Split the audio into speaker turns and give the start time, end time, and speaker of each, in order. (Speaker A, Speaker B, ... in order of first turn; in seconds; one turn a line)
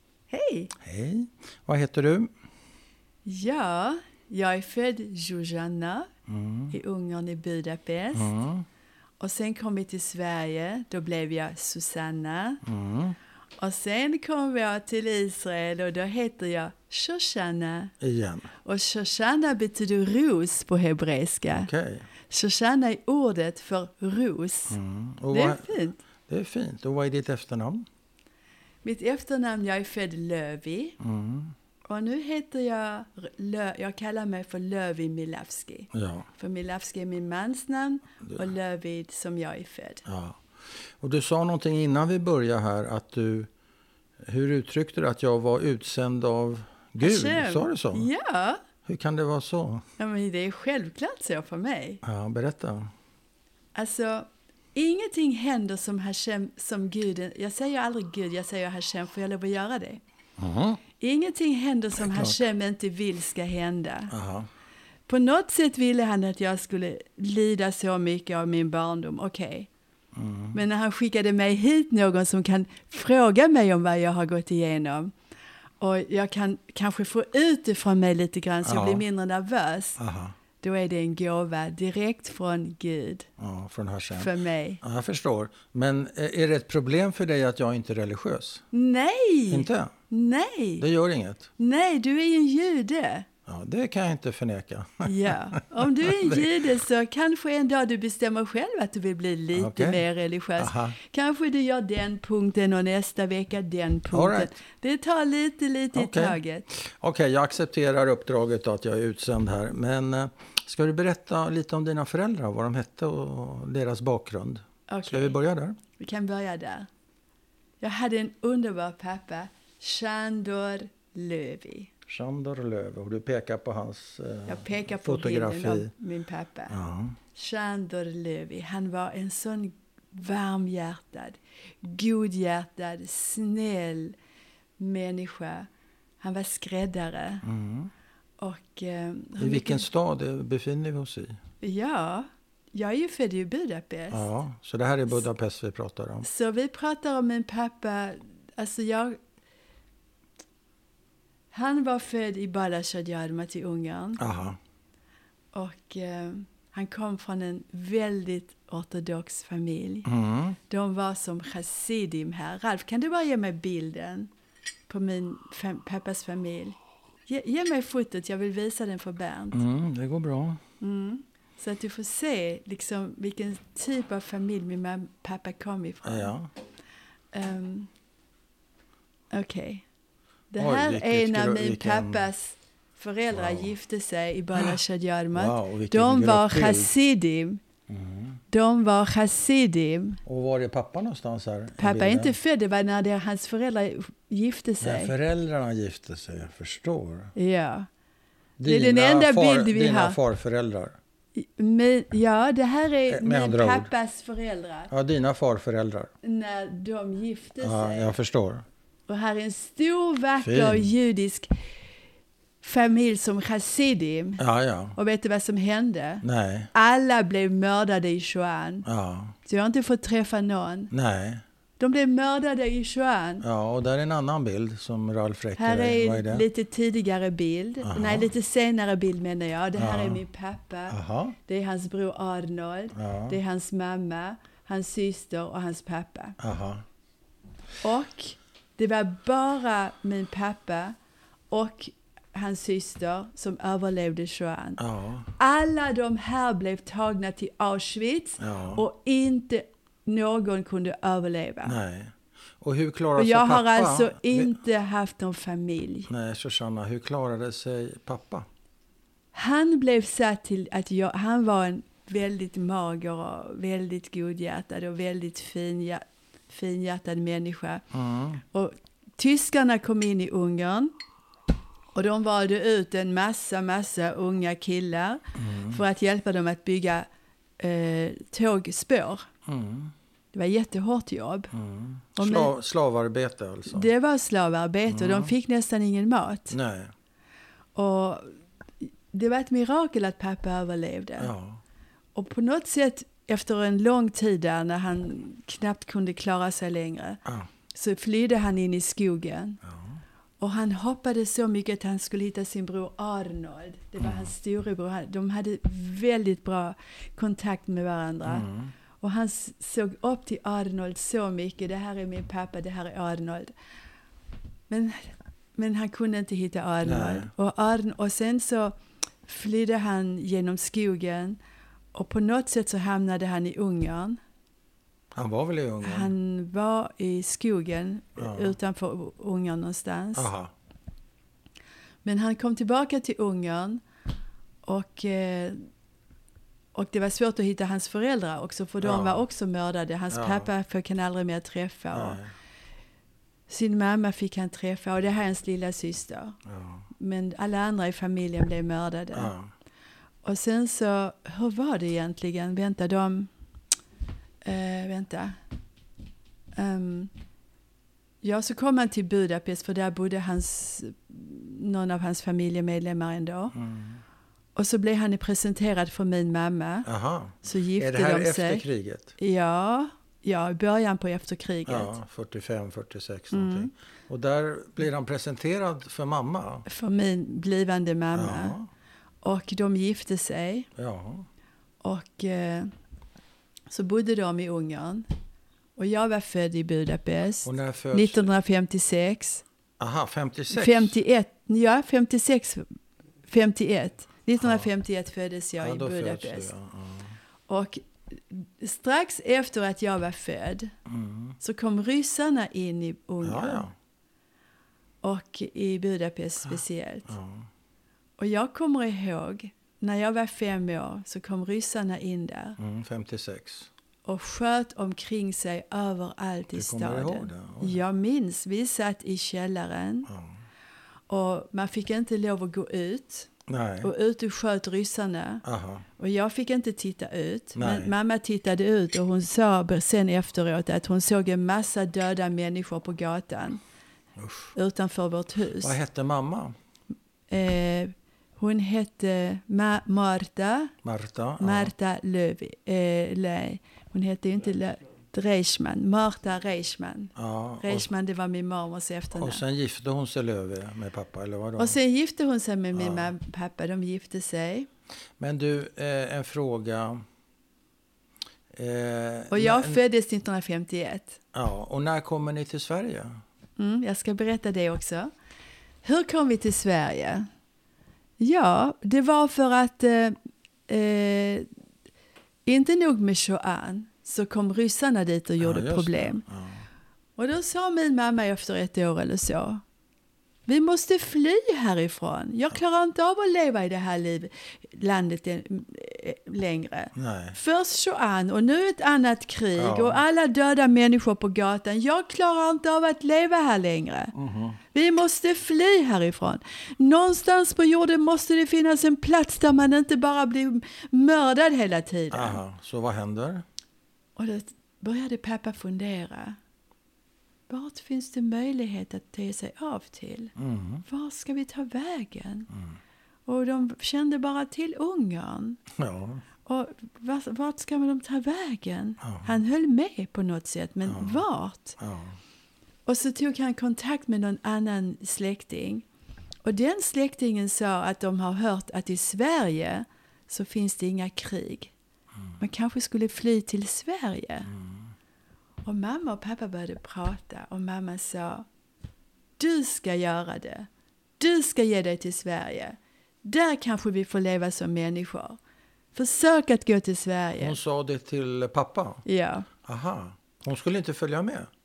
Speaker A: 0.3-0.7
Speaker B: 0.8-2.3
Speaker A: 3.2-6.1
Speaker B: 6.3-6.8
Speaker A: 6.7-8.3
Speaker B: 8.1-8.7
Speaker A: 9.2-12.6
Speaker B: 12.6-13.2
Speaker A: 13.6-17.9
Speaker B: 18.0-18.5
Speaker A: 18.6-21.7
Speaker B: 21.5-22.1
Speaker A: 22.3-24.8
Speaker B: 24.7-25.7
Speaker A: 25.3-26.0
Speaker B: 26.3-27.9
Speaker A: 28.8-31.0
Speaker B: 31.0-31.5
Speaker A: 31.9-40.0
Speaker B: 35.9-36.3
Speaker B: 40.0-40.4
Speaker B: 41.0-43.5
Speaker B: 44.2-48.1
Speaker A: 47.0-48.6
Speaker B: 48.9-49.8
Speaker A: 50.0-52.0
Speaker B: 52.0-52.9
Speaker A: 53.7-60.0
Speaker B: 60.4-60.8
Speaker A: 61.0-64.1
Speaker B: 62.0-62.4
Speaker B: 64.1-64.5
Speaker A: 65.1-69.7
Speaker B: 70.1-70.6
Speaker A: 70.5-75.1
Speaker A: 75.8-80.0
Speaker B: 78.6-79.0
Speaker B: 80.0-80.4
Speaker A: 80.6-83.3
Speaker B: 83.4-88.6
Speaker A: 84.1-84.8
Speaker A: 88.7-90.8
Speaker B: 89.5-89.9
Speaker B: 90.8-91.5
Speaker A: 91.6-93.3
Speaker B: 93.5-96.5
Speaker A: 95.0-106.7
Speaker B: 99.5-100.0
Speaker B: 100.6-101.0
Speaker B: 104.1-104.5
Speaker B: 105.9-115.8
Speaker A: 114.9-115.3
Speaker A: 116.0-116.9
Speaker A: 117.8-121.9
Speaker B: 122.1-125.9
Speaker A: 124.5-126.7
Speaker B: 126.7-127.2
Speaker A: 127.3-134.2
Speaker A: 134.8-135.7
Speaker A: 136.2-137.4
Speaker B: 137.4-137.9
Speaker A: 138.4-139.8
Speaker B: 139.4-141.3
Speaker A: 141.6-144.2
Speaker B: 144.1-146.3
Speaker A: 146.2-149.2
Speaker A: 151.5-154.2
Speaker B: 154.2-154.6
Speaker A: 155.5-160.1
Speaker B: 160.1-160.6
Speaker A: 160.7-164.3
Speaker A: 164.9-169.6
Speaker B: 169.5-170.6
Speaker A: 170.8-176.3
Speaker B: 176.0-176.5
Speaker A: 177.3-177.9
Speaker A: 179.3-179.8
Speaker A: 180.5-187.6
Speaker B: 180.6-182.3
Speaker B: 183.3-183.7
Speaker B: 185.3-186.9
Speaker B: 187.9-188.4
Speaker A: 188.5-190.2
Speaker B: 190.2-192.3
Speaker A: 191.8-195.1
Speaker B: 194.8-197.3
Speaker A: 197.3-197.9
Speaker B: 198.6-201.0
Speaker A: 198.7-200.2
Speaker A: 201.3-204.9
Speaker B: 203.1-203.9
Speaker B: 204.9-206.1
Speaker A: 206.2-208.2
Speaker B: 207.6-208.6
Speaker A: 209.1-211.5
Speaker B: 210.4-210.9
Speaker A: 212.6-214.4
Speaker B: 214.4-214.9
Speaker A: 214.9-218.8
Speaker B: 216.2-216.7
Speaker B: 218.8-219.3
Speaker A: 219.4-220.9
Speaker B: 220.9-221.4
Speaker A: 221.8-223.4
Speaker B: 223.4-226.5
Speaker A: 225.6-236.4
Speaker B: 227.8-228.3
Speaker B: 229.8-230.2
Speaker B: 230.9-231.4
Speaker B: 232.9-233.4
Speaker B: 236.4-236.8
Speaker A: 237.8-240.9
Speaker A: 241.5-244.8
Speaker B: 244.8-245.3
Speaker A: 245.4-251.7
Speaker B: 248.4-248.8
Speaker B: 251.6-254.5
Speaker A: 253.2-256.1
Speaker B: 256.1-258.5
Speaker A: 259.3-267.8
Speaker B: 267.9-268.4
Speaker A: 268.4-270.9
Speaker A: 271.9-277.1
Speaker B: 275.4-275.8
Speaker A: 277.6-279.2
Speaker B: 279.4-279.9
Speaker A: 280.3-281.5
Speaker B: 281.5-283.9
Speaker A: 282.1-282.5
Speaker A: 283.7-286.5
Speaker B: 284.9-285.3
Speaker B: 286.5-286.9
Speaker A: 287.7-288.3
Speaker A: 288.8-291.3
Speaker B: 291.2-291.6
Speaker A: 292.1-297.2
Speaker A: 297.7-299.6
Speaker B: 299.6-300.0
Speaker A: 300.4-308.5
Speaker B: 304.0-304.3
Speaker B: 308.2-308.7
Speaker A: 309.0-313.5
Speaker A: 314.7-321.4
Speaker B: 316.8-317.3
Speaker A: 321.9-324.2
Speaker B: 325.1-326.1
Speaker A: 325.8-330.3
Speaker B: 328.2-328.5
Speaker B: 330.1-330.5
Speaker A: 332.0-333.8
Speaker A: 334.6-335.6
Speaker A: 336.7-342.2
Speaker B: 338.8-339.2
Speaker B: 340.1-340.5
Speaker B: 341.9-342.3
Speaker A: 343.5-346.4
Speaker B: 346.4-346.9
Speaker A: 347.0-349.3
Speaker B: 349.1-349.5
Speaker A: 350.2-353.3
Speaker A: 354.4-355.4
Speaker A: 356.5-357.1
Speaker A: 358.2-363.5
Speaker B: 363.5-364.0
Speaker A: 364.5-366.9
Speaker B: 366.8-369.1
Speaker A: 367.4-368.6
Speaker A: 369.2-371.9
Speaker B: 371.6-376.6
Speaker A: 373.3-373.7
Speaker A: 376.7-378.6
Speaker B: 378.1-378.7
Speaker A: 379.2-380.7
Speaker B: 380.8-381.3
Speaker A: 381.8-382.7
Speaker A: 383.7-385.1
Speaker A: 385.8-389.4
Speaker B: 387.4-388.3
Speaker B: 389.8-391.0
Speaker A: 390.5-392.6
Speaker A: 393.3-396.5
Speaker B: 394.4-394.6
Speaker B: 395.6-397.1
Speaker A: 397.5-400.7
Speaker B: 400.9-401.4
Speaker A: 401.4-403.6
Speaker B: 403.2-403.7
Speaker A: 405.0-407.1
Speaker B: 407.1-407.5
Speaker A: 408.2-412.6
Speaker B: 412.6-413.7
Speaker A: 414.1-420.1
Speaker B: 416.5-417.8
Speaker B: 420.1-420.4
Speaker A: 421.1-423.3
Speaker B: 423.5-423.9
Speaker A: 423.8-425.4
Speaker B: 425.4-425.8
Speaker A: 426.0-433.6
Speaker B: 427.6-427.9
Speaker B: 434.2-434.5
Speaker A: 434.5-435.7
Speaker B: 435.6-436.5
Speaker A: 437.3-440.7
Speaker B: 440.8-441.7
Speaker A: 441.4-449.4
Speaker B: 447.1-447.9
Speaker B: 449.1-451.8
Speaker A: 451.6-454.7
Speaker B: 452.7-453.1
Speaker B: 455.2-457.0
Speaker B: 458.5-459.8
Speaker A: 459.3-461.2
Speaker B: 461.3-463.2
Speaker A: 463.6-465.1
Speaker A: 465.8-467.3
Speaker A: 468.2-470.1
Speaker A: 470.7-471.5
Speaker A: 472.4-476.2
Speaker B: 475.4-476.6
Speaker A: 477.2-479.6
Speaker A: 480.5-494.1
Speaker B: 486.9-487.4
Speaker B: 489.6-490.0
Speaker B: 494.1-494.6
Speaker A: 494.7-502.4
Speaker B: 502.1-503.4
Speaker A: 504.2-506.4
Speaker A: 507.5-510.3
Speaker B: 510.4-510.8
Speaker A: 510.9-512.5
Speaker A: 513.3-515.6
Speaker B: 515.8-516.2
Speaker A: 516.5-521.8
Speaker B: 519.0-519.4
Speaker B: 520.8-521.2
Speaker B: 521.8-522.1
Speaker A: 522.9-525.8
Speaker A: 526.4-531.7
Speaker A: 532.4-534.5
Speaker B: 534.5-534.8
Speaker A: 535.6-538.5
Speaker A: 539.4-540.7
Speaker A: 541.2-545.4
Speaker A: 545.9-547.5
Speaker B: 547.4-549.0
Speaker A: 549.0-549.5
Speaker B: 549.6-551.5